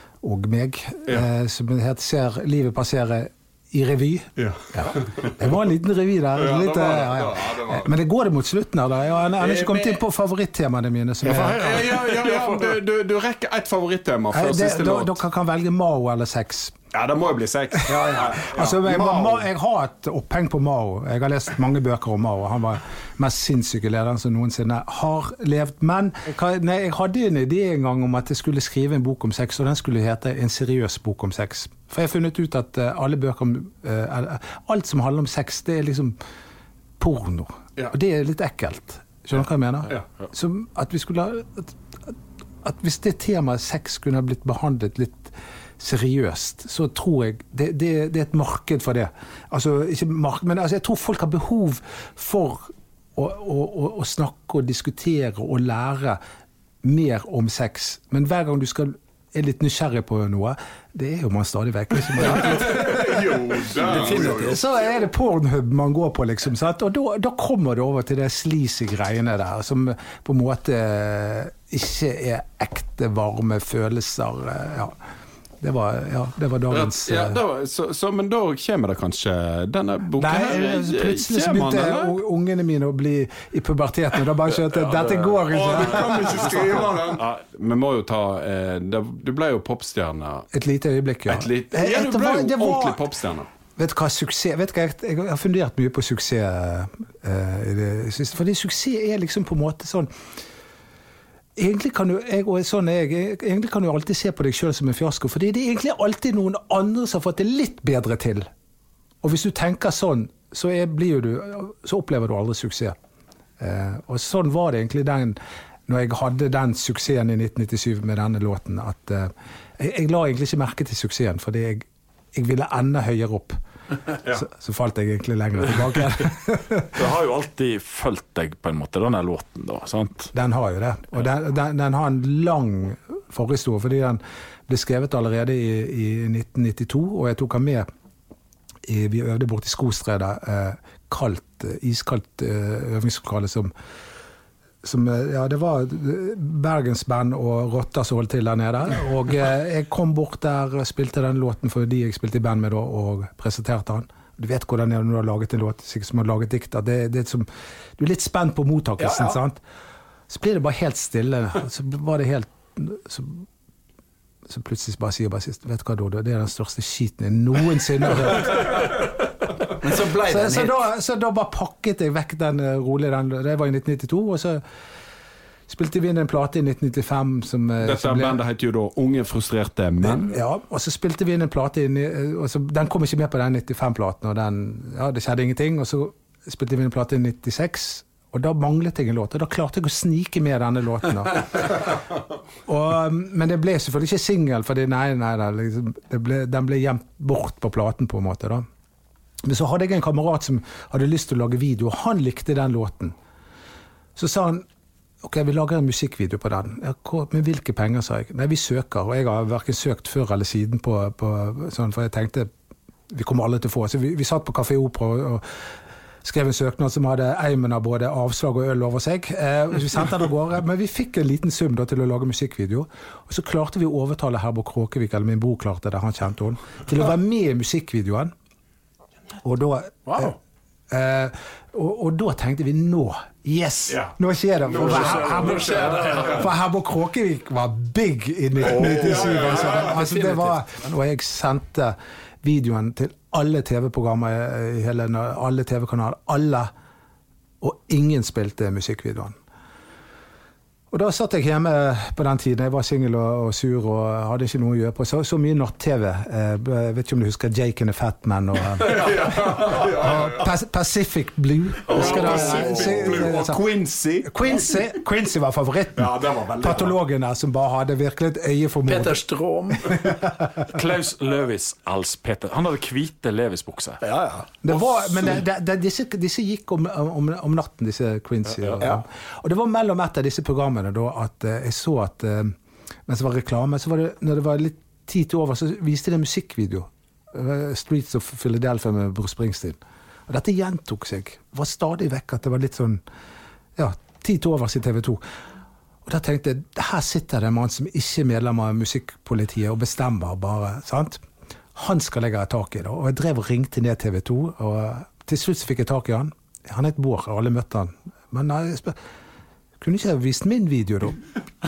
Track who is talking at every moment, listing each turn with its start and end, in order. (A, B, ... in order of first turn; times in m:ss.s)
0:00.2-0:11.7 A
0:04.4-0:05.4 B
0:06.4-0:07.9 B
0:09.4-0:10.0 B
0:11.2-0:12.6 C
0:11.6-0:15.2 B
0:14.3-0:16.8 A
0:16.9-0:19.4 B
0:17.9-0:36.2 A
0:17.9-0:18.2 C
0:37.0-0:56.2 A
0:56.8-1:03.4 A
1:02.2-1:04.6 B
1:03.8-1:04.6 C
1:03.9-1:15.0 A
1:15.6-1:17.4 A
1:16.7-1:22.1 B
1:20.2-1:26.8 A
1:24.8-1:25.4 D
1:25.5-1:30.5 B
1:30.5-1:33.1 A
1:31.3-1:33.5 B
1:33.8-1:40.1 A
1:41.6-1:48.5 A
1:49.2-1:53.0 A
1:53.6-2:03.6 A
2:04.3-2:06.9 A
2:07.0-2:10.3 D
2:10.3-2:17.9 A
2:18.9-2:23.7 A
2:24.8-2:37.5 A
2:38.0-2:39.6 A
2:39.0-2:39.3 C
2:40.3-2:43.5 A
2:44.5-2:48.8 A
2:49.8-2:50.8 C
2:50.2-2:54.6 A
2:55.7-2:58.4 A
2:57.8-3:00.3 B
3:00.0-3:12.0 A
3:12.7-3:18.7 A
3:19.4-3:23.2 A
3:24.2-3:24.7 A
3:25.2-3:32.5 A
3:33.1-3:35.4 A
3:36.2-3:48.3 A
3:49.4-3:50.3 A
3:50.1-3:50.4 C
3:50.9-4:06.7 A
3:53.9-3:56.4 B
3:54.9-3:56.4 C
3:55.2-3:56.1 D
3:58.6-4:00.0 B
4:07.6-4:09.4 A
4:10.9-4:23.6 A
4:18.8-4:20.5 B
4:21.9-4:24.6 B
4:21.9-4:22.4 C
4:24.2-4:29.2 A
4:26.0-4:27.0 B
4:28.9-4:30.0 C
4:30.0-4:30.7 A
4:30.7-4:34.0 D
4:34.0-4:34.5 C
4:34.6-4:42.6 A
4:34.7-4:35.4 B
4:43.1-4:53.0 A
4:53.8-4:55.2 A
4:56.1-5:01.2 A
5:01.8-5:09.0 A
5:09.8-5:11.2 A